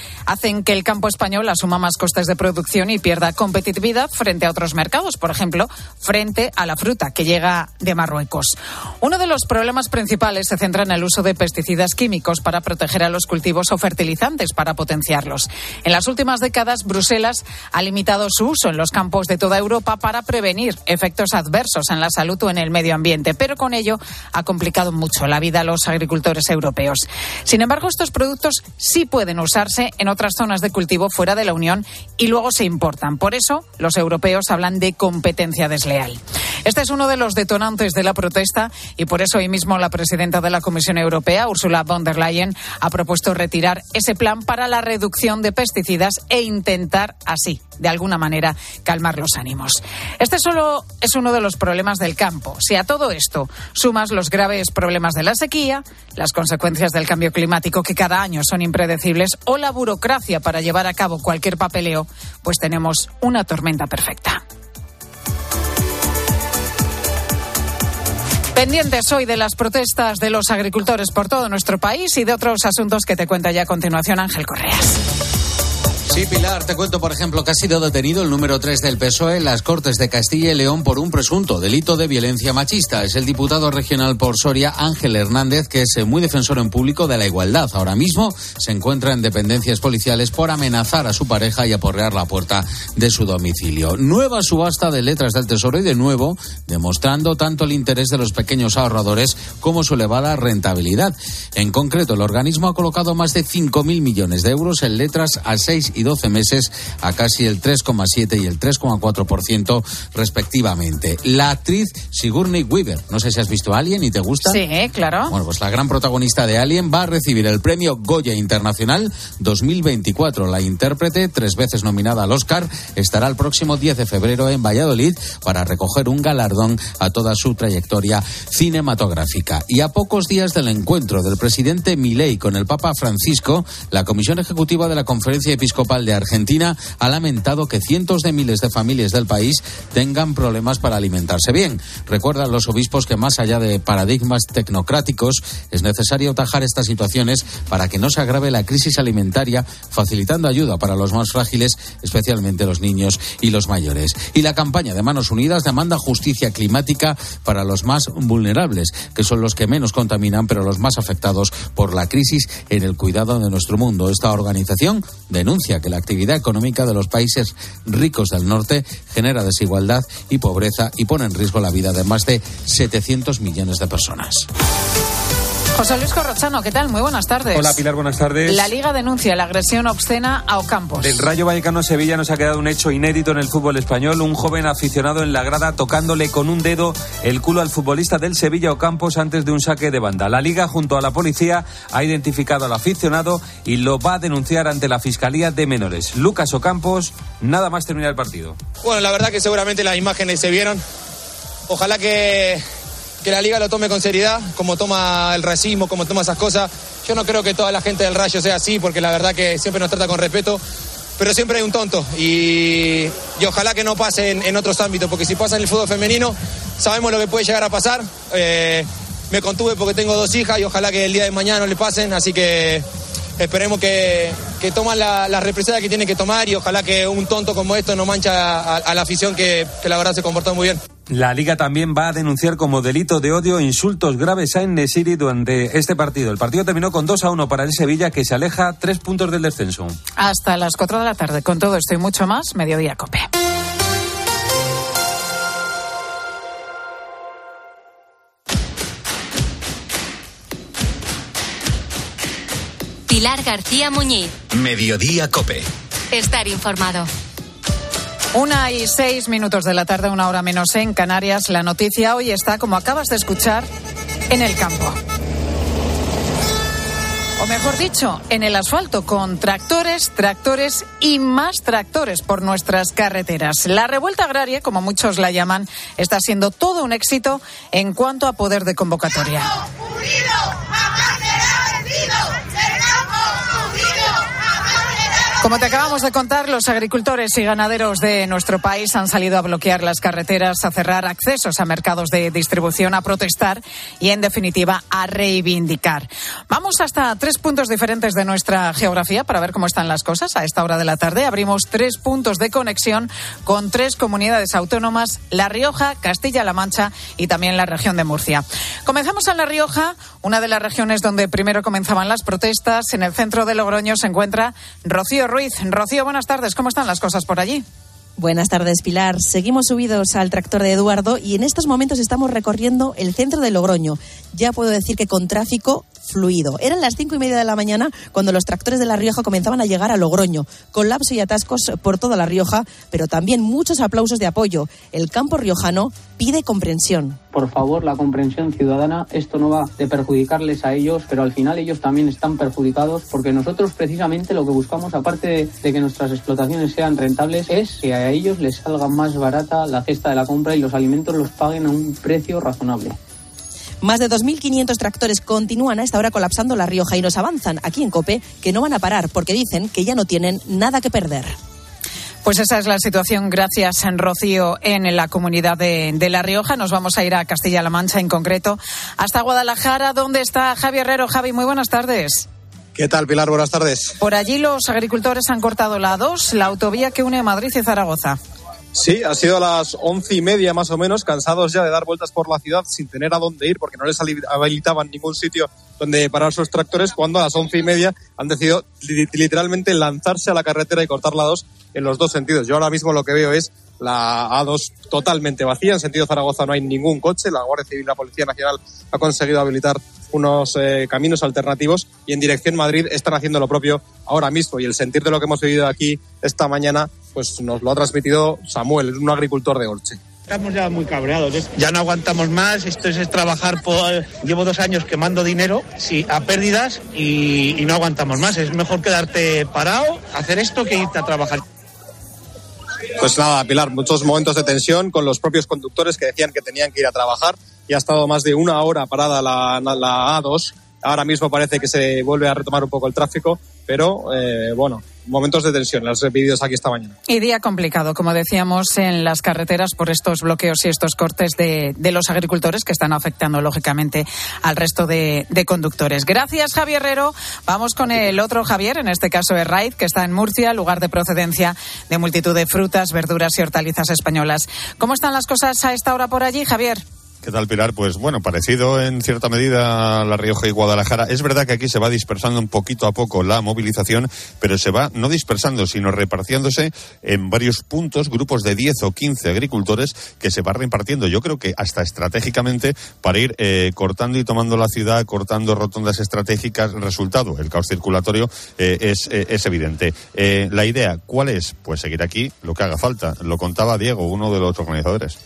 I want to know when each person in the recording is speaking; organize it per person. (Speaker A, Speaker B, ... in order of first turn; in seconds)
Speaker A: 0.3-64.4, 68.5-75.0, 114.5-115.3, 175.7-177.8, 178.4-181.2, 240.2-243.3, 258.3-263.7, 264.3-265.0, 267.4-279.5, 285.4-317.6, 362.2-372.3, 374.0-378.2, 437.1-456.8
Speaker B: 76.1-114.6, 115.3-174.5, 254.5-255.7
Speaker C: 177.5-178.7, 181.0-198.6, 231.1-239.9
Speaker D: 198.8-200.8, 201.7-202.6, 203.2-210.6, 211.2-222.8, 223.4-230.8
Speaker E: 253.1-254.3, 256.1-257.1
Speaker F: 318.2-337.2, 353.8-361.4
Speaker G: 337.3-353.0
Speaker H: 372.7-373.9, 378.8-410.0, 423.0-436.9
Speaker I: 410.3-421.4
Speaker J: 457.2-485.2